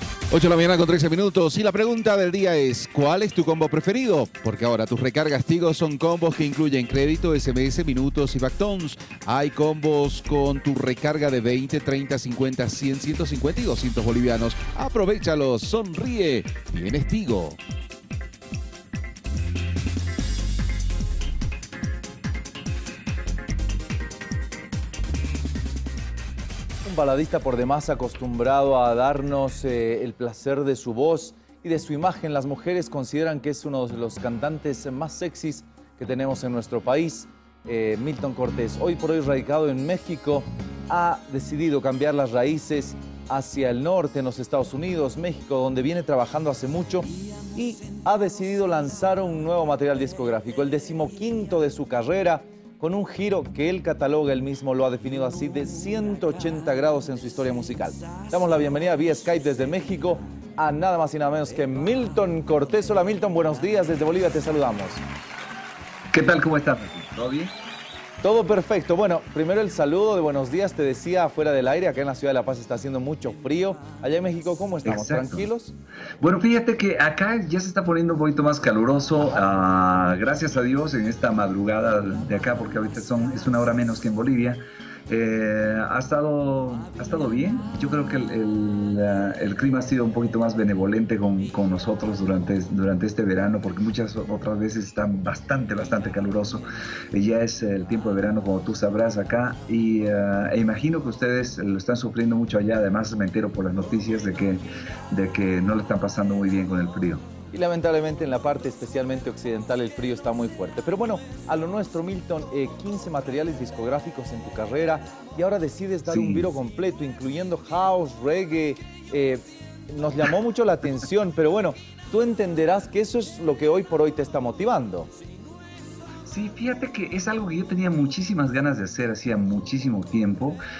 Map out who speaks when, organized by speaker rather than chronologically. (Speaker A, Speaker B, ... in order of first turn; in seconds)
Speaker A: 0.3-17.6
Speaker B: 26.8-65.0, 68.2-75.8, 79.2-79.5, 107.5-125.1
Speaker C: 66.1-67.5, 74.8-75.5, 76.2-107.3, 116.1-116.5, 126.2-130.6